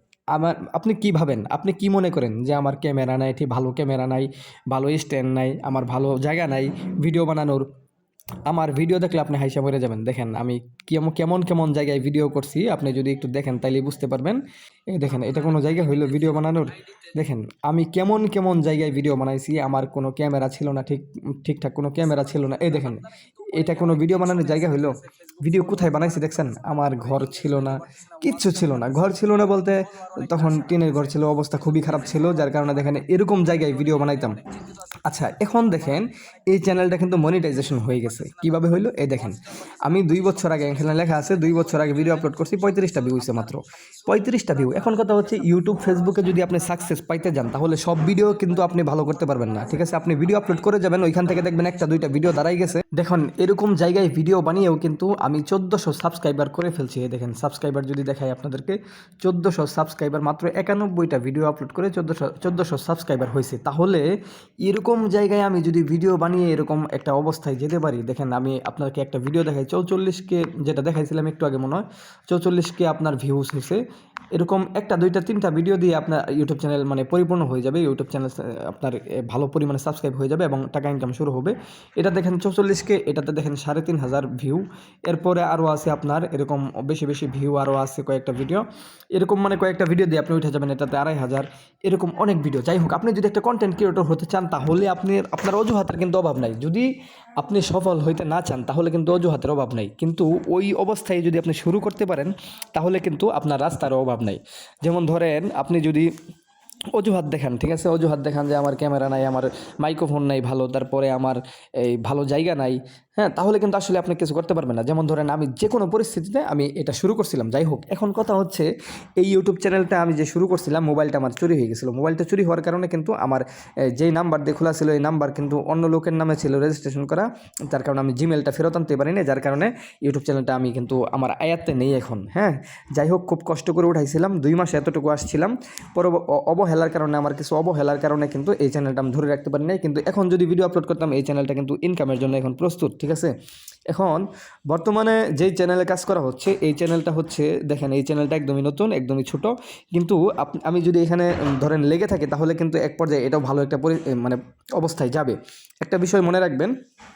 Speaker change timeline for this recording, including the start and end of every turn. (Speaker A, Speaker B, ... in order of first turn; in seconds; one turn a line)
Speaker A: 0.3-7.7
Speaker A: 8.4-34.4
Speaker A: 35.0-64.1
Speaker A: 64.6-73.8
Speaker A: 74.3-106.1
Speaker A: 106.9-143.3
Speaker A: 143.9-156.7